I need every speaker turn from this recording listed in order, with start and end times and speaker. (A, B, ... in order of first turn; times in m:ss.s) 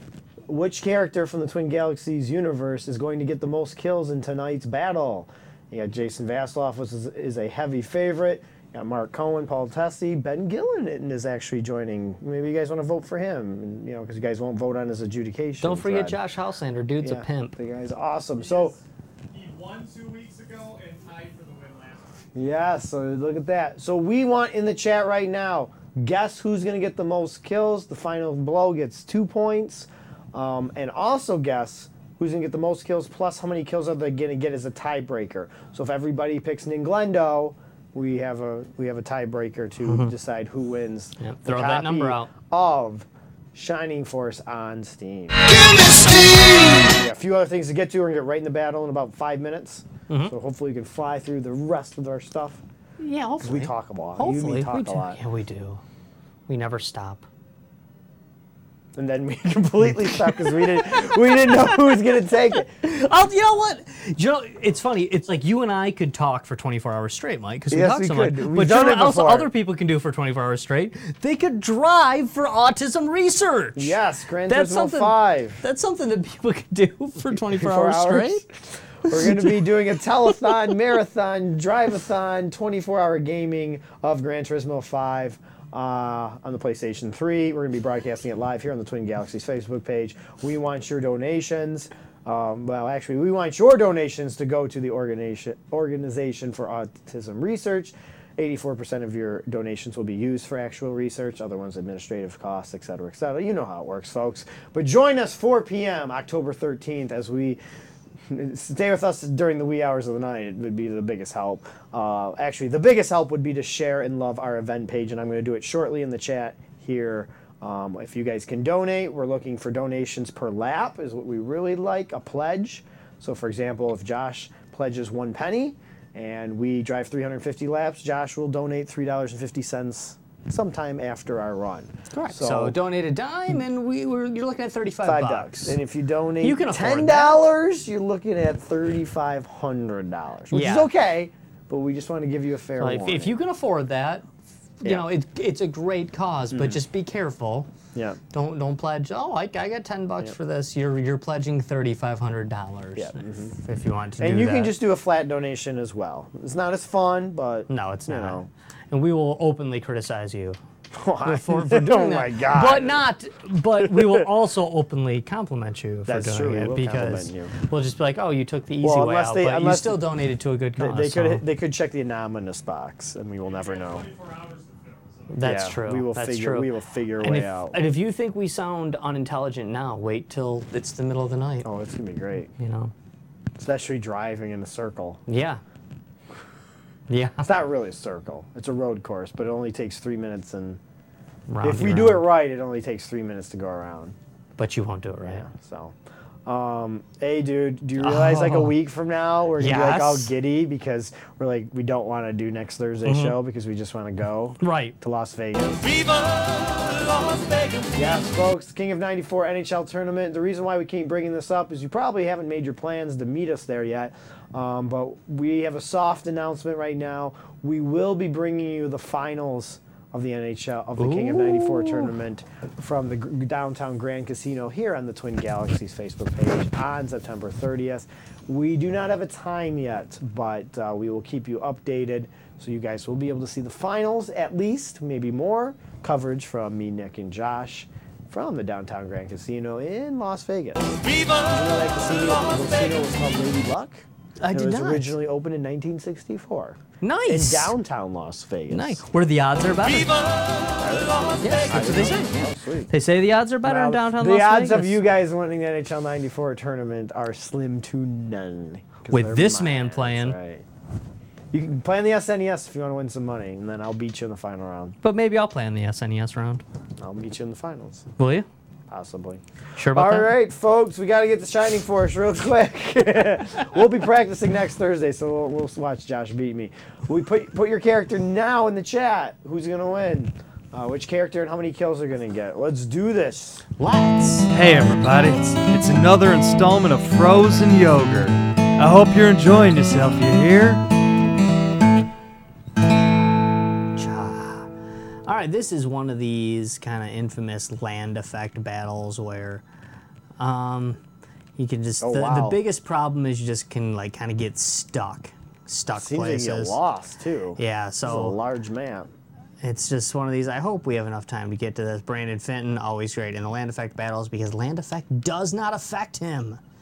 0:00.5-0:16.2 A
0:15.6-0:17.6 B
0:17.0-0:18.8 A
0:18.4-0:22.3 C
0:22.4-0:52.6 A
0:39.9-0:40.1 B
0:41.2-0:42.3 B
0:50.1-0:50.3 B
0:53.0-0:55.8 B
0:53.4-0:55.2 A
0:56.5-0:57.3 B
0:59.0-1:02.8 A
1:02.8-1:14.0 B
1:07.7-1:09.5 A
1:13.8-1:15.6 A
1:14.5-1:18.4 B
1:17.5-1:47.6 A
1:19.1-1:19.7 B
1:48.3-2:12.8 A
2:12.1-2:15.8 B
2:15.0-2:23.4 A
2:16.4-2:17.5 B
2:20.5-2:20.9 B
2:22.8-2:24.3 B
2:24.8-2:27.7 B
2:26.5-2:26.8 A
2:27.9-2:28.2 A
2:28.3-2:34.7 B
2:33.0-2:33.6 A
2:34.2-2:38.5 A
2:37.7-2:40.6 B
2:40.9-2:43.0 A
2:41.2-2:51.4 B
2:46.1-2:47.5 A
2:48.8-2:50.0 A
2:50.8-2:54.1 A
2:53.4-2:55.4 C
2:55.3-3:01.7 B
2:55.4-2:57.8 A
3:01.6-3:02.5 A
3:02.6-3:02.9 B
3:03.6-3:05.2 A
3:05.3-3:05.6 B
3:07.1-3:07.5 B
3:07.4-3:10.8 A
3:11.5-3:12.3 B
3:11.6-3:14.2 A
3:14.6-3:15.5 B
3:15.2-3:26.0 A
3:18.0-3:18.8 B
3:19.6-3:20.3 B
3:23.0-3:23.4 B
3:24.6-3:25.0 B
3:27.9-4:09.0 A
3:41.0-3:42.1 B
4:04.4-4:05.1 B
4:07.0-4:07.7 B
4:08.7-4:10.3 B
4:10.8-4:12.9 A
4:11.4-4:15.0 B
4:13.6-4:20.7 A
4:19.1-4:20.4 B
4:21.5-4:25.0 A
4:25.0-4:26.6 B
4:27.0-4:28.1 A
4:28.2-4:28.5 B
4:28.9-4:43.7 A
4:29.8-4:30.3 B
4:43.8-4:44.6 B
4:44.5-4:50.8 D
4:54.0-4:54.7 B
4:55.3-4:59.6 B
5:00.4-5:01.0 B
5:01.6-5:06.8 B
5:02.0-5:02.6 A
5:05.9-5:09.1 A
5:07.6-5:08.4 B
5:09.6-5:16.6 B